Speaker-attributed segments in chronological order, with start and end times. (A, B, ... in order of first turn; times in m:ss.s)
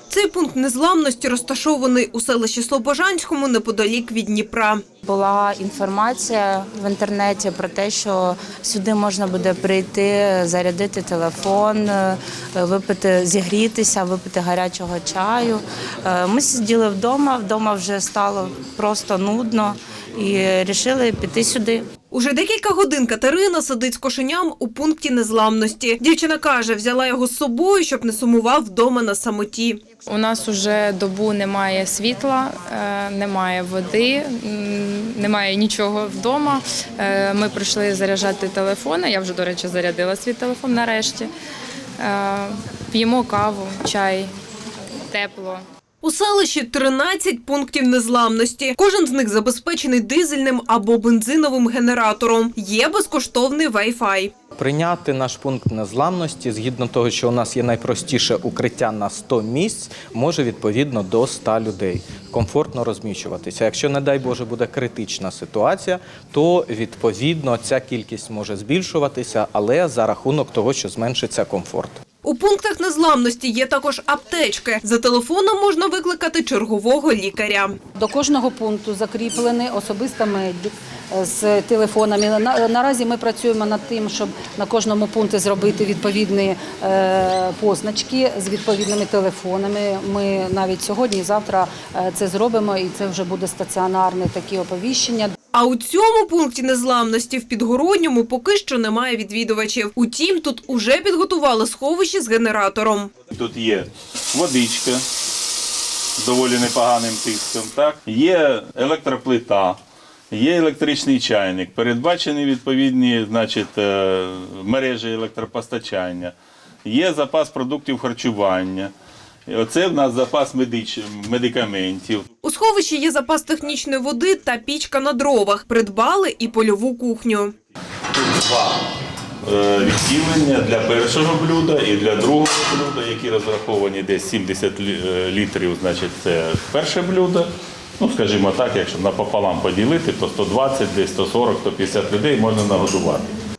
0:00.1-0:04.8 A
0:05.0-0:21.8 B
0:22.1-0:29.8 A
0:30.1-0:41.3 C
0:42.0-0:44.3 C
0:45.1-0:45.6 C
0:46.0-0:54.3 A
0:54.6-1:12.0 D
1:12.2-1:17.7 A
1:18.0-1:35.3 E
1:35.5-1:43.1 A
1:43.3-1:45.0 F
1:46.2-1:49.8 F
1:50.3-1:56.3 F
1:56.8-1:58.9 F
1:59.5-2:02.2 F
2:02.4-2:07.5 A
2:08.2-2:08.8 F
2:09.4-2:23.3 F